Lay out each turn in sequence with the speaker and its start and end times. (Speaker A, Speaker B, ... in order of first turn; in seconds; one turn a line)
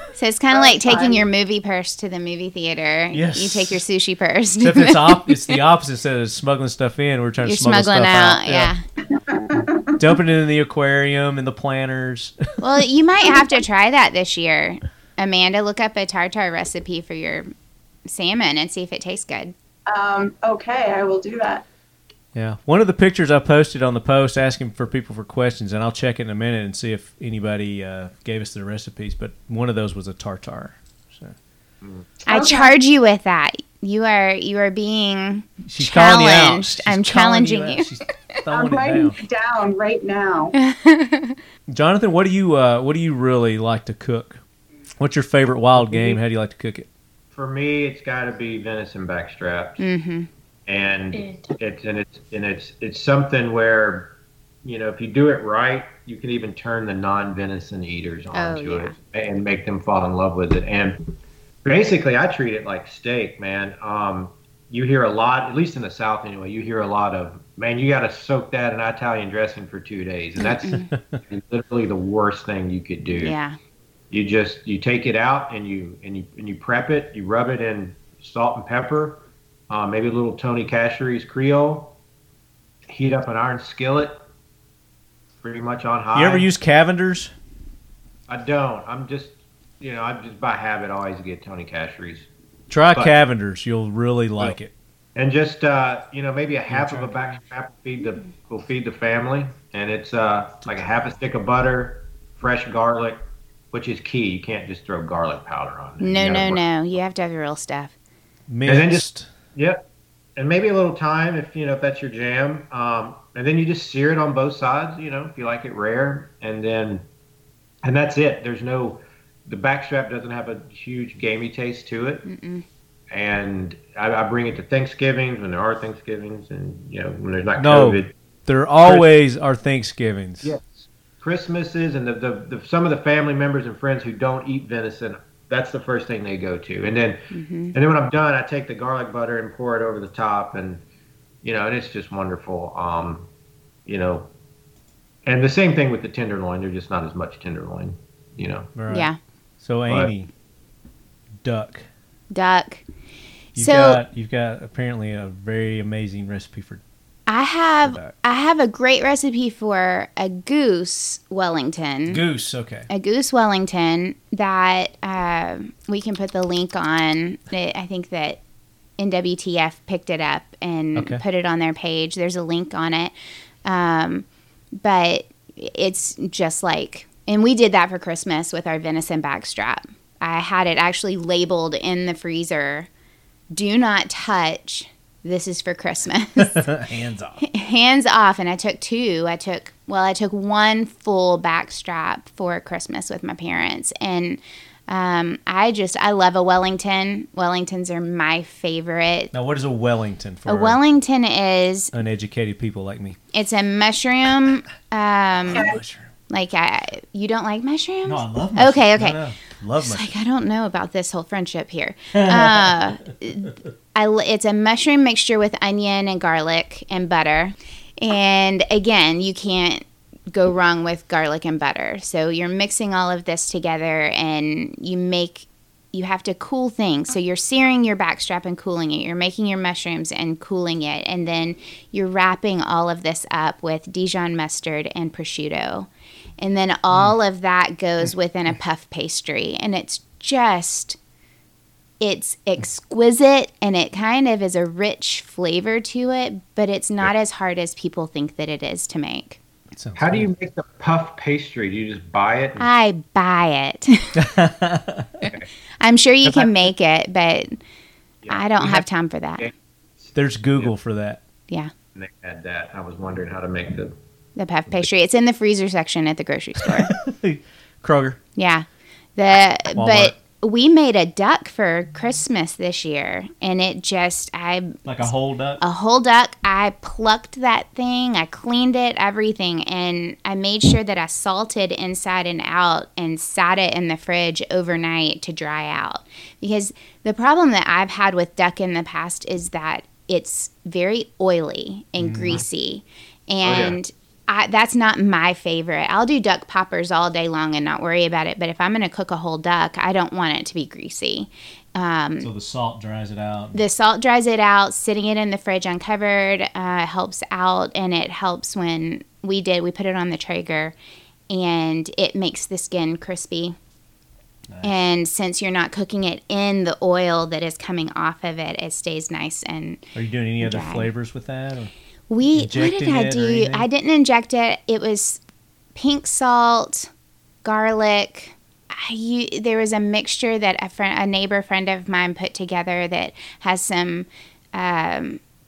Speaker A: 0.1-5.6
Speaker B: 0.5-1.2
Speaker C: 3.1-3.8
Speaker C: 4.6-8.7
Speaker A: 7.4-8.8
Speaker B: 9.1-10.0
Speaker C: 10.0-12.5
Speaker A: 12.6-17.5
Speaker A: 18.1-19.5
Speaker B: 19.9-21.6
Speaker C: 22.3-31.3
Speaker B: 32.3-32.7
Speaker A: 32.3-37.9
Speaker C: 35.6-39.2
Speaker B: 38.5-40.5
Speaker A: 40.5-41.4
Speaker C: 41.7-44.4
Speaker C: 45.0-46.9
Speaker D: 45.8-46.2
Speaker D: 47.3-49.9
Speaker A: 49.8-50.3
Speaker D: 50.7-73.3
Speaker A: 58.3-58.9
Speaker A: 70.4-70.9
Speaker C: 70.9-71.2
Speaker A: 73.2-73.5
Speaker D: 74.1-82.0
Speaker D: 82.9-84.2
Speaker D: 85.4-86.5
Speaker C: 86.1-87.3
Speaker D: 88.3-92.3
Speaker C: 92.7-94.7
Speaker D: 95.1-106.6
Speaker C: 96.7-97.4
Speaker A: 106.0-107.9
Speaker C: 108.5-109.3
Speaker D: 108.7-117.0
Speaker D: 117.8-122.2
Speaker A: 122.2-122.6
Speaker D: 123.1-128.1
Speaker C: 127.6-130.5
Speaker D: 128.8-129.1
Speaker D: 130.4-140.8
Speaker A: 137.3-137.7
Speaker D: 141.4-143.3
Speaker D: 143.8-144.3
Speaker D: 145.2-148.7
Speaker C: 148.8-149.1
Speaker A: 148.9-149.2
Speaker C: 149.6-150.3
Speaker C: 151.4-151.8
Speaker A: 152.3-152.8
Speaker C: 153.5-156.8
Speaker A: 153.6-154.0
Speaker A: 157.3-162.2
Speaker C: 157.8-158.1
Speaker C: 162.1-162.9
Speaker A: 162.9-168.4
Speaker A: 169.0-173.1
Speaker C: 170.9-171.2
Speaker A: 173.6-182.9
Speaker A: 183.5-186.7
Speaker C: 186.4-187.4
Speaker A: 187.4-199.3
Speaker C: 199.3-200.8
Speaker A: 200.5-201.9
Speaker C: 201.9-203.2
Speaker A: 203.3-205.8
Speaker C: 205.4-206.1
Speaker A: 206.3-209.2
Speaker C: 208.0-210.1
Speaker A: 209.8-241.0
Speaker C: 212.1-212.7
Speaker A: 242.0-249.4
Speaker C: 249.7-250.3
Speaker D: 249.9-252.7
Speaker A: 252.6-254.2
Speaker C: 254.2-255.2
Speaker D: 255.2-255.5
Speaker A: 255.8-257.6
Speaker D: 258.2-258.9
Speaker A: 258.3-259.5
Speaker D: 260.1-260.7
Speaker C: 260.1-261.2
Speaker D: 261.9-263.9
Speaker A: 264.4-266.9
Speaker C: 266.8-268.2
Speaker A: 268.4-275.1
Speaker C: 269.7-270.1
Speaker C: 274.8-275.6
Speaker A: 275.6-302.3
Speaker C: 292.0-292.4
Speaker D: 293.4-293.8
Speaker C: 302.2-303.6
Speaker A: 303.5-310.7
Speaker A: 311.3-313.5
Speaker C: 314.5-314.8
Speaker A: 314.6-319.9
Speaker C: 319.9-321.7
Speaker A: 320.4-320.9
Speaker A: 322.1-325.2
Speaker C: 322.3-323.6
Speaker A: 325.7-326.9
Speaker A: 327.4-335.2